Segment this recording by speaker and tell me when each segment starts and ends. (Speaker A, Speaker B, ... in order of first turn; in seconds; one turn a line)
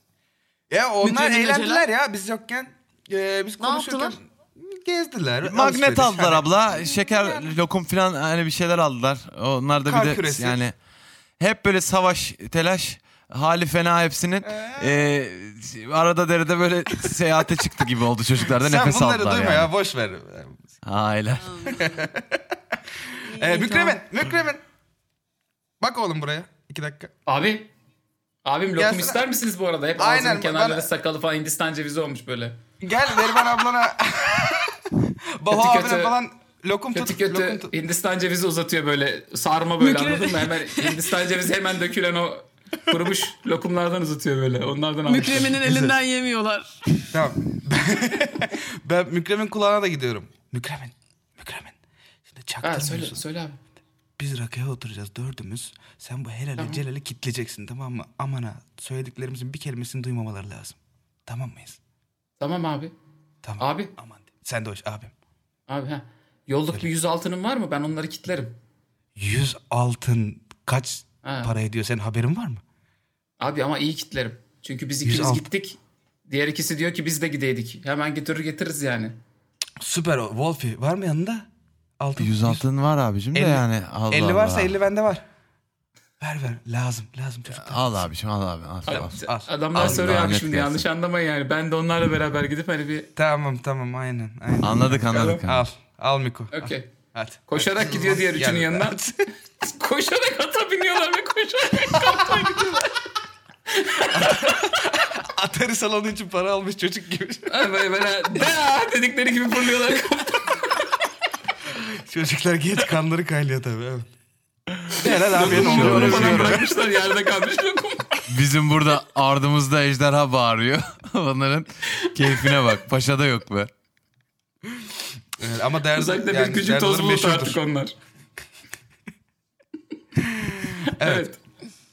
Speaker A: 0.7-7.5
Speaker B: 1.0-1.9
Speaker B: 3.6-4.2
Speaker C: 5.4-10.8
Speaker A: 9.9-10.7
Speaker C: 11.4-19.7
Speaker A: 14.4-15.1
Speaker A: 18.6-20.6
Speaker C: 20.8-21.8
Speaker A: 21.7-22.4
Speaker A: 23.1-24.6
Speaker B: 23.3-24.0
Speaker A: 25.8-27.1
Speaker D: 27.3-27.7
Speaker D: 28.4-32.6
Speaker A: 28.8-29.2
Speaker A: 30.0-30.8
Speaker A: 32.8-34.8
Speaker A: 35.4-37.7
Speaker D: 35.5-36.1
Speaker D: 36.9-45.6
Speaker B: 39.8-41.0
Speaker B: 45.1-46.8
Speaker A: 45.6-46.0
Speaker A: 47.1-51.8
Speaker A: 52.3-53.2
Speaker D: 52.6-53.6
Speaker A: 54.2-61.8
Speaker D: 56.6-56.8
Speaker D: 62.4-62.9
Speaker A: 63.4-65.1
Speaker D: 63.6-63.9
Speaker D: 65.7-68.6
Speaker A: 69.2-72.6
Speaker D: 71.2-71.5
Speaker D: 73.4-75.8
Speaker A: 75.0-75.5
Speaker D: 76.3-79.2
Speaker A: 79.8-81.5
Speaker A: 82.0-82.7
Speaker C: 82.2-84.7
Speaker A: 83.3-85.2
Speaker A: 86.2-87.9
Speaker C: 87.5-89.2
Speaker D: 88.9-93.1
Speaker A: 88.9-90.4
Speaker C: 89.7-90.8
Speaker A: 93.2-99.3
Speaker C: 94.6-95.7
Speaker D: 95.1-95.4
Speaker D: 96.5-96.9
Speaker D: 97.5-99.0
Speaker D: 99.6-102.8
Speaker A: 102.3-102.6
Speaker D: 103.7-104.5
Speaker A: 104.1-107.5
Speaker D: 107.5-110.7
Speaker A: 111.8-114.1
Speaker A: 114.9-116.7
Speaker D: 115.0-118.2
Speaker C: 115.3-116.6
Speaker C: 118.3-123.7
Speaker D: 122.2-122.6
Speaker A: 125.4-127.6
Speaker D: 125.9-127.9
Speaker A: 130.4-131.2
Speaker D: 130.7-131.4